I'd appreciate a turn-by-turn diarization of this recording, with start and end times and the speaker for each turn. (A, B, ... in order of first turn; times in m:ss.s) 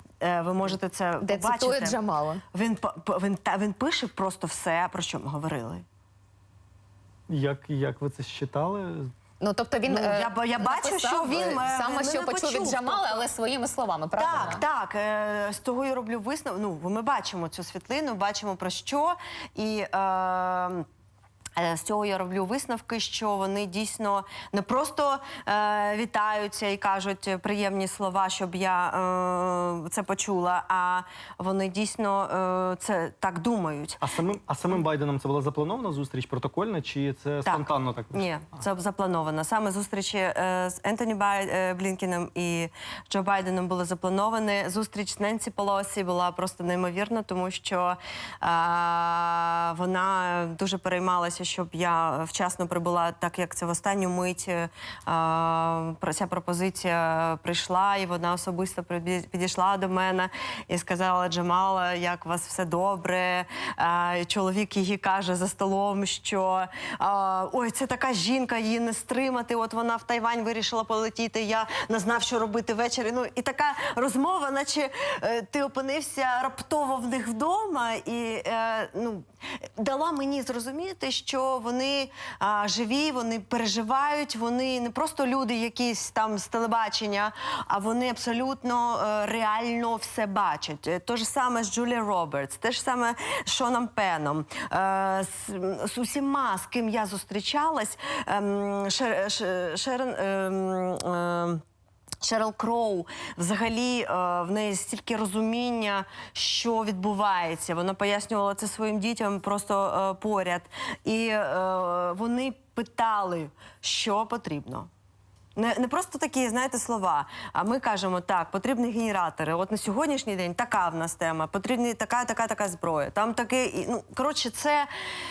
0:00.2-0:02.0 A
0:01.2-0:02.4 B
0:02.5-0:05.8 A
0:07.3-0:09.1 C
0:09.4-0:14.6 B
0:09.9-0:13.3 A
0:14.2-0:20.8 A
0:21.6-0:34.0 A
0:34.0-0:38.2 C
0:37.4-1:41.6 A
1:42.2-1:54.9 A
1:55.6-2:04.9 A